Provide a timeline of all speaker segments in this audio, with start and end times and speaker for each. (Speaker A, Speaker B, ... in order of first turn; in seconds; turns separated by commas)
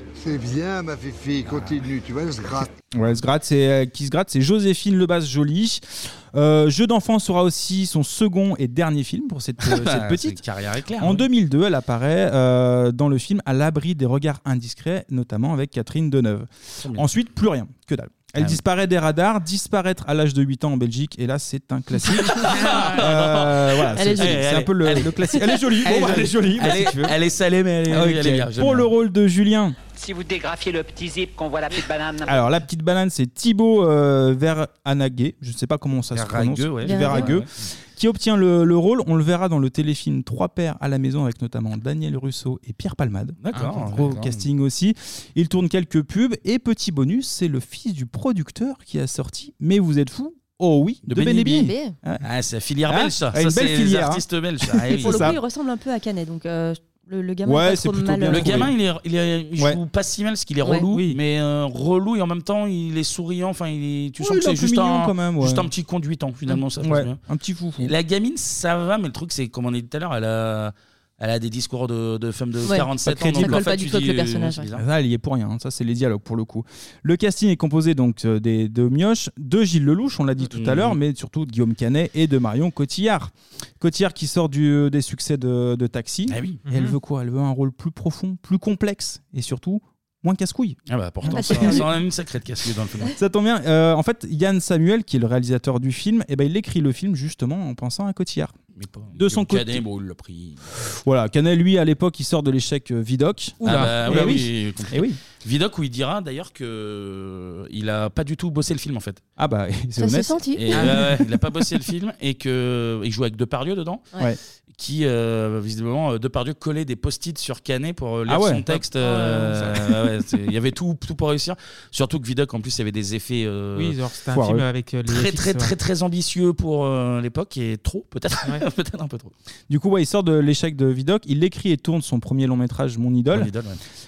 Speaker A: 0.2-2.7, Speaker B: 2.9-10.4, Speaker C: 9.6-11.3, Speaker B: 11.0-27.1, Speaker C: 16.8-17.1, Speaker C: 22.1-28.9, Speaker D: 22.6-22.9, Speaker E: 23.9-24.4, Speaker B: 27.9-29.8, Speaker F: 29.9-32.4, Speaker B: 32.2-52.2, Speaker C: 36.1-37.5, Speaker E: 36.8-37.3, Speaker C: 43.4-44.4, Speaker C: 51.1-51.7, Speaker E: 51.5-52.0, Speaker C: 52.2-55.4, Speaker B: 52.9-55.4, Speaker E: 55.0-58.6, Speaker B: 57.4-58.7, Speaker C: 58.3-67.2, Speaker B: 64.2-65.7, Speaker B: 66.8-67.9, Speaker C: 67.8-74.8, Speaker E: 72.6-74.7, Speaker B: 73.0-73.6, Speaker B: 74.7-91.8, Speaker C: 80.5-81.0, Speaker C: 86.3-86.6, Speaker D: 86.7-87.0, Speaker C: 90.9-93.1, Speaker E: 91.3-91.9, Speaker B: 93.1-98.5, Speaker C: 98.8-100.9, Speaker B: 99.2-99.8, Speaker B: 101.0-105.2, Speaker D: 103.6-104.4, Speaker C: 103.6-109.2, Speaker B: 109.4-111.2, Speaker E: 110.0-110.8, Speaker C: 110.5-114.1, Speaker D: 110.8-111.2, Speaker C: 114.7-124.0, Speaker B: 118.3-118.6, Speaker D: 119.0-119.8, Speaker D: 123.7-125.7, Speaker B: 124.3-124.7, Speaker C: 125.0-129.3, Speaker B: 129.7-133.5, Speaker C: 133.3-133.8